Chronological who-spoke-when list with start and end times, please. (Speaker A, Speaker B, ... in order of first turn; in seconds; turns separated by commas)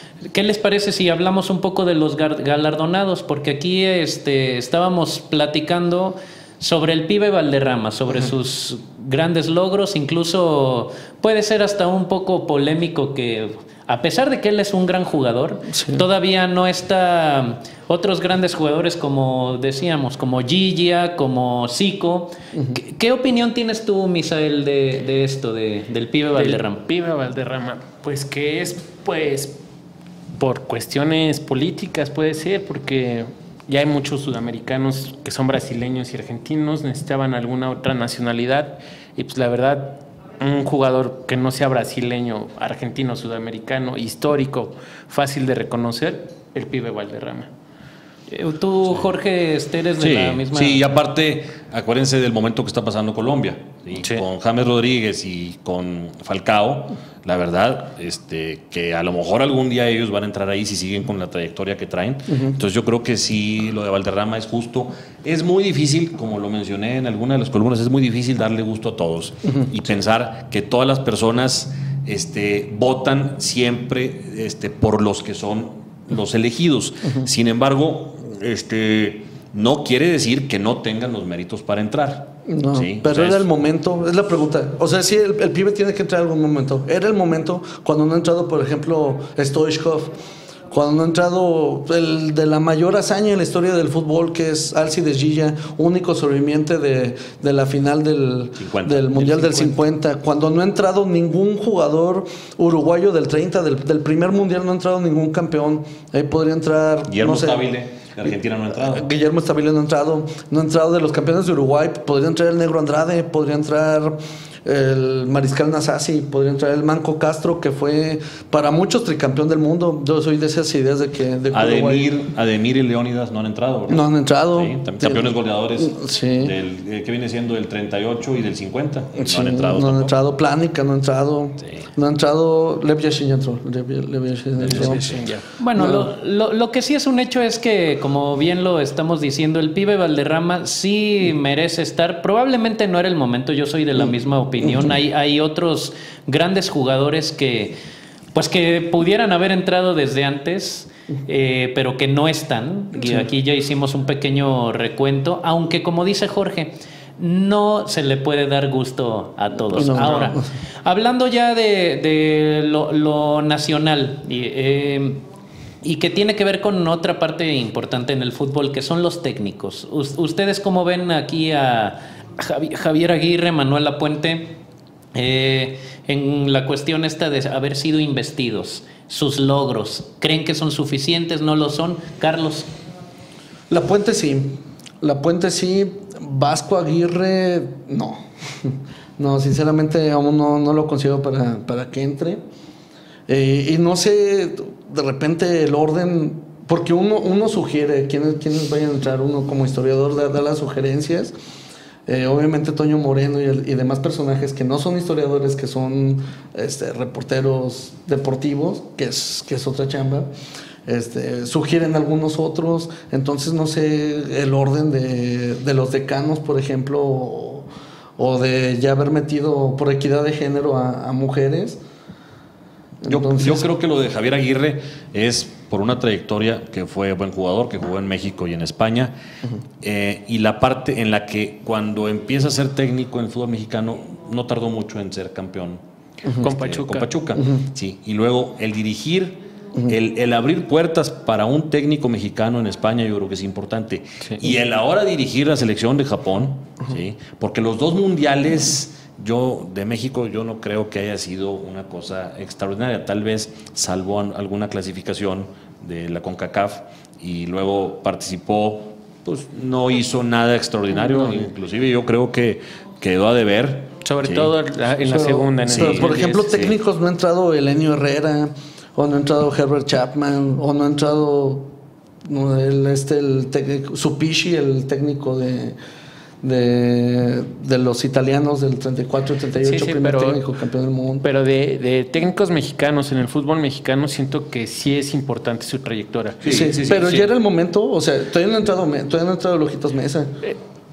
Speaker A: 0.2-26.8, Speaker B: 15.7-16.0, Speaker C: 26.3-29.6, Speaker C: 30.4-47.5, Speaker A: 48.3-50.9, Speaker D: 50.0-83.5, Speaker B: 82.5-90.1, Speaker B: 90.7-107.6, Speaker D: 98.5-99.3, Speaker C: 99.4-99.7, Speaker D: 107.1-109.0, Speaker B: 108.8-122.2, Speaker D: 121.5-130.1, Speaker B: 123.9-126.5, Speaker B: 129.2-135.1, Speaker D: 134.6-135.2, Speaker C: 134.8-135.4, Speaker A: 135.6-147.7, Speaker B: 135.7-136.1, Speaker A: 148.3-165.2, Speaker B: 152.9-153.2, Speaker B: 159.7-160.4, Speaker A: 165.8-174.5, Speaker A: 175.1-182.7, Speaker B: 183.7-192.4, Speaker B: 193.3-201.3, Speaker B: 202.1-210.3, Speaker B: 210.8-217.7, Speaker B: 218.2-221.8, Speaker B: 223.0-223.7, Speaker D: 223.1-229.1, Speaker D: 229.8-235.8, Speaker D: 236.4-264.5, Speaker C: 236.4-237.1, Speaker B: 237.3-237.6, Speaker C: 261.0-261.3, Speaker C: 264.0-266.4, Speaker B: 265.0-271.7, Speaker D: 265.7-266.8, Speaker B: 272.2-275.8, Speaker B: 276.4-281.2, Speaker C: 279.6-280.4, Speaker C: 281.2-286.4, Speaker D: 286.4-287.3, Speaker B: 286.4-290.4